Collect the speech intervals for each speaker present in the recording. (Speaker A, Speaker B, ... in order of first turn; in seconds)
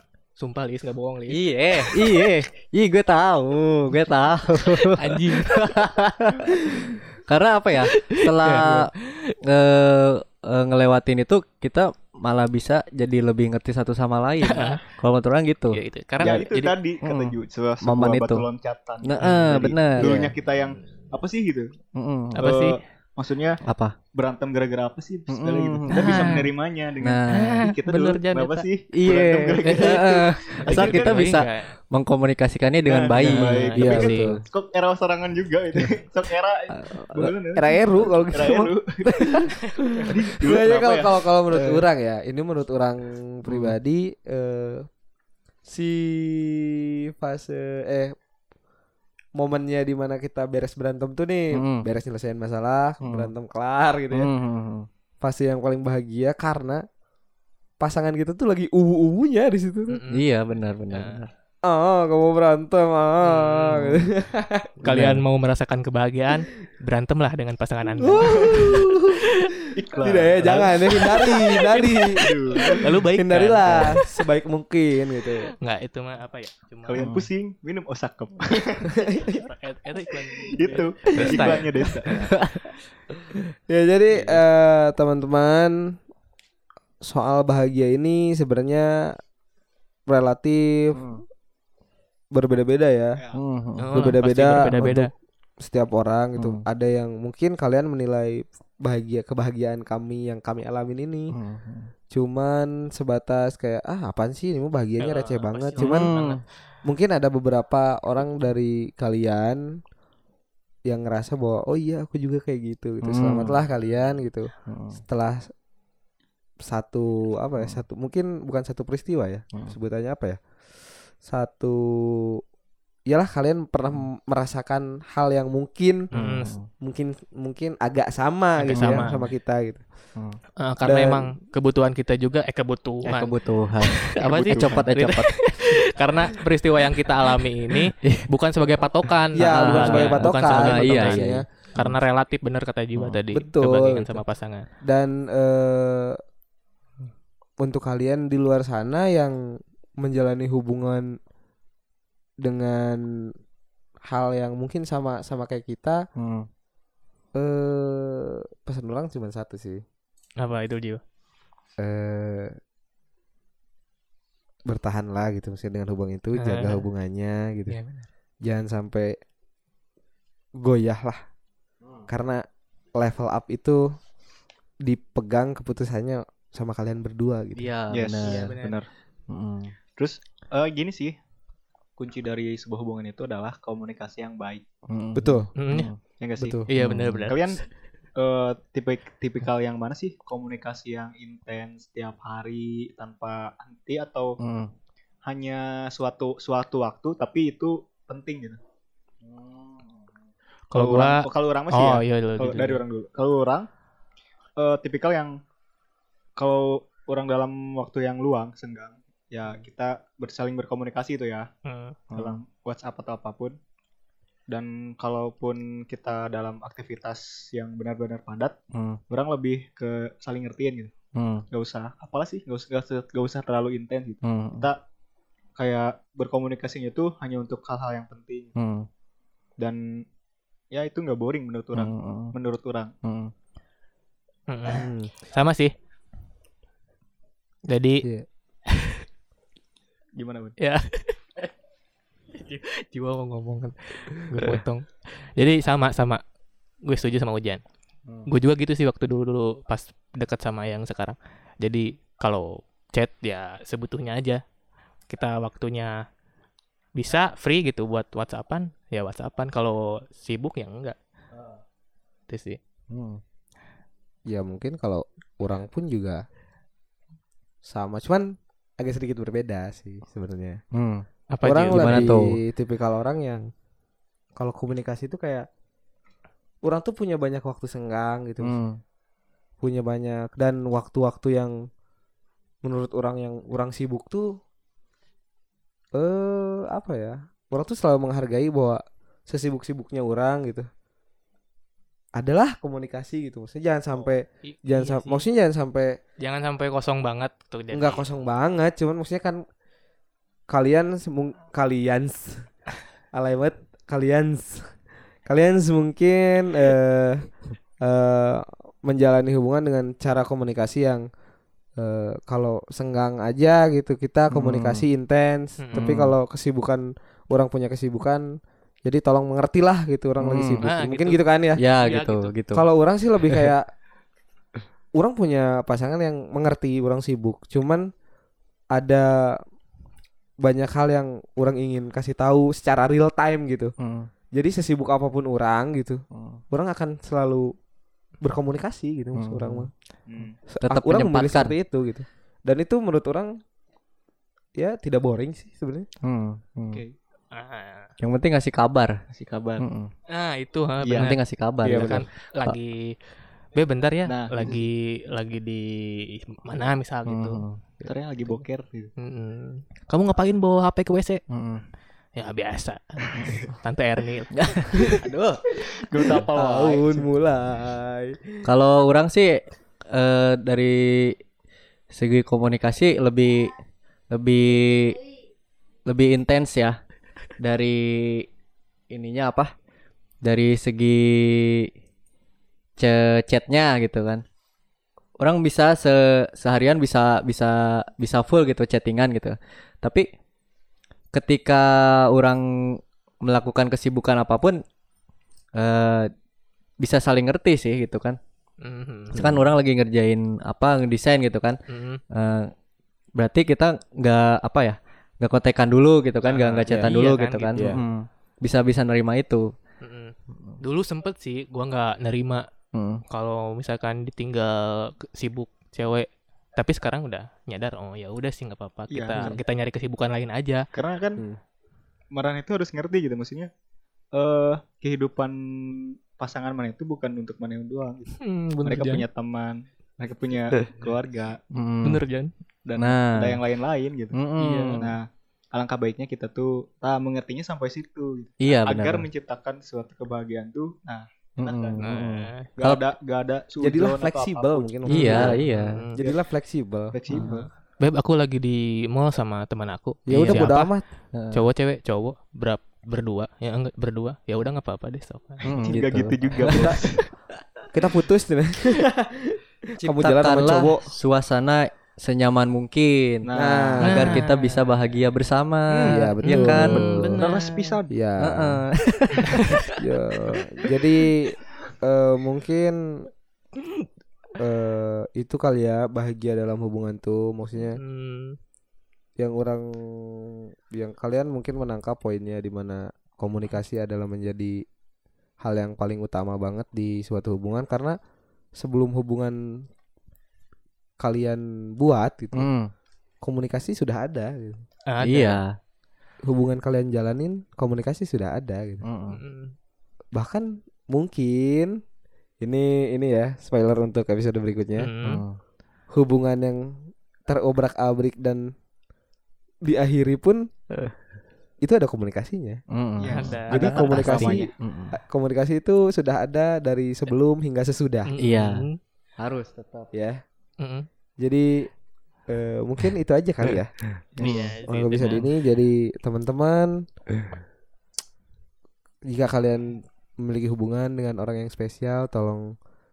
Speaker A: 0.4-2.2, 4.7-5.9, 7.9-9.4, 14.4-14.8, 15.7-16.6, 22.4-22.8, 25.9-26.5, 27.3-28.7, 29.6-30.0, 30.7-31.7, 33.2-34.3, 59.9-60.3, 60.9-61.2, 63.2-64.0, 64.8-69.5, 71.0-74.1, 75.6-77.0, 79.2-82.2, 93.8-95.1, 105.0-106.4, 126.1-126.5, 128.6-129.3, 130.6-141.2, 141.8-144.7, 160.4-161.0, 166.4-166.8, 167.7-168.1, 178.2-178.8, 185.6-185.9, 186.7-187.6, 200.7-202.8, 211.7-212.0, 234.5-235.7, 237.7-238.1, 238.7-239.1, 240.6-241.2, 242.3-246.2, 246.8-247.6, 248.3-254.4, 255.1-256.0, 257.0-261.0, 262.3-262.6, 271.3-272.1, 294.5-295.2, 296.2-298.0, 315.6-315.9, 320.6-321.2, 321.8-322.3, 347.3-347.9, 350.1-353.0, 353.6-357.4, 359.0-361.2, 362.2-364.4, 398.6-399.2, 401.7-402.0, 406.2-407.6, 409.8-412.5, 413.1-420.7, 428.2-429.1, 431.8-432.3, 434.4-434.8, 441.8-442.5, 445.0-446.0, 447.2-450.7, 451.3-455.5, 463.8-464.6, 466.2-467.8, 477.7-478.4, 494.9-495.4, 499.1-499.5, 504.8-505.2, 513.1-514.4, 518.1-518.8, 520.6-520.9, 524.2-525.3
Speaker B: 1.3-18.5, 19.0-20.3, 21.9-22.4, 23.6-23.9, 25.3-26.4, 27.0-27.6, 28.9-34.4, 36.7-37.3, 43.5-43.8, 51.5-51.9, 53.0-53.3, 54.1-54.9, 60.1-61.3, 64.8-65.2, 77.0-77.3, 81.2-81.5, 82.1-82.7, 90.9-91.2, 93.3-94.2, 96.4-96.7, 101.3-101.9, 105.8-106.4, 113.0-113.6, 114.7-115.0, 126.1-126.7, 128.7-129.1, 133.1-135.3, 138.0-138.3, 139.5-142.0, 156.2-156.5, 177.6-178.5, 179.3-179.7, 184.9-186.0, 186.8-187.3, 194.4-194.7, 199.2-200.0, 212.1-212.4, 218.7-219.0, 221.2-221.4, 224.2-224.7, 228.6-228.9, 231.8-232.3, 233.0-233.3, 262.9-263.2, 270.7-271.1, 271.7-272.4, 278.4-278.8, 314.3-314.9, 315.7-316.1, 320.2-320.6, 321.6-322.6, 333.8-334.1, 336.1-336.4, 339.1-339.7, 340.6-341.5, 346.0-346.8, 348.0-348.9, 349.6-349.9, 351.0-352.6, 357.1-357.6, 361.3-361.6, 364.4-365.4, 368.4-371.2, 371.9-373.6, 374.1-375.0, 375.9-376.8, 377.4-378.3, 378.9-379.5, 380.2-381.7, 382.8-384.2, 385.2-390.1, 391.1-394.6, 395.6-396.1, 396.8-398.2, 399.1-401.6, 402.1-402.5, 403.2-409.5, 412.7-413.0, 431.5-432.0, 432.8-433.4, 434.1-434.9, 438.4-439.1, 441.4-442.9, 444.9-445.8, 447.1-447.4, 451.1-451.5, 455.4-456.8, 459.8-463.3, 463.8-467.0, 468.2-469.7, 492.3-492.7, 495.0-495.5, 498.8-499.2, 505.0-505.4, 512.7-515.0, 518.2-518.6, 519.2-519.9, 524.2-524.6
Speaker C: 16.2-21.7, 22.4-23.6, 24.1-31.4, 32.9-39.5, 40.1-41.8, 68.2-68.7, 69.7-71.0, 72.1-73.0, 76.9-79.0, 80.4-82.3, 134.2-134.9, 177.9-178.9, 180.0-181.2, 182.0-184.6, 186.2-186.6, 187.3-187.6, 188.2-194.4, 195.3-198.6, 200.7-203.7, 204.6-205.4, 206.4-211.5, 212.1-213.6, 214.5-218.6, 219.1-220.9, 221.5-224.8, 225.6-228.6, 229.6-230.0, 230.7-232.9, 240.2-240.6, 340.1-340.4, 349.1-349.6, 350.8-351.1, 354.1-354.6, 357.8-358.9, 365.8-367.1, 418.9-419.4, 420.7-421.2, 422.1-423.5, 424.1-431.4, 432.6-441.8, 442.6-445.4, 446.9-447.5, 455.5-457.1, 463.3-464.1, 465.7-466.0, 467.2-467.9, 513.0-514.5, 524.2-524.5
Speaker D: 33.8-34.4, 37.5-44.9, 45.7-48.1, 49.4-54.3, 55.2-56.8, 57.8-60.0, 61.6-64.9, 68.0-75.5, 78.9-79.4, 83.7-86.0, 87.0-89.2, 90.1-91.0, 92.3-93.2, 94.0-95.1, 95.6-101.3, 102.1-106.1, 106.8-109.7, 110.9-115.5, 116.6-120.4, 121.2-122.4, 123.1-126.1, 126.8-129.8, 130.8-131.3, 139.3-141.4, 143.3-144.2, 144.8-146.2, 147.6-149.4, 150.0-151.2, 152.4-153.0, 154.1-156.1, 157.3-159.8, 161.8-162.6, 164.7-167.8, 168.4-169.2, 170.6-171.2, 172.1-172.4, 173.0-173.9, 174.8-177.7, 185.2-185.5, 186.4-186.7, 234.7-235.1, 264.3-266.2, 267.6-270.6, 271.4-273.5, 274.4-275.5, 276.6-278.6, 279.6-281.6, 282.6-284.3, 285.9-290.7, 292.2-296.0, 297.7-299.4, 300.5-302.5, 303.1-304.7, 305.3-307.3, 307.8-311.1, 311.8-318.2, 318.9-321.6, 322.5-323.7, 325.0-327.9, 328.7-329.4, 330.4-333.7, 334.3-337.5, 338.2-339.7, 340.5-343.4, 344.6-345.9, 351.6-352.1, 366.2-368.3, 399.1-399.5, 406.7-406.9, 407.6-407.8, 443.6-445.4, 446.0-447.0, 450.1-450.9, 457.7-460.9, 463.3-464.2, 465.9-467.2, 467.9-468.6, 469.8-472.8, 474.4-477.8, 479.2-484.6, 485.4-488.0, 488.6-489.6, 491.0-492.5, 493.2-494.6, 496.2-498.8, 500.2-501.8, 502.4-504.9, 505.9-506.8, 507.3-508.5, 509.6-510.5, 511.6-512.6, 513.5-518.1, 519.9-520.2, 521.2-521.7, 522.3-523.7, 524.2-526.8, 529.1-532.5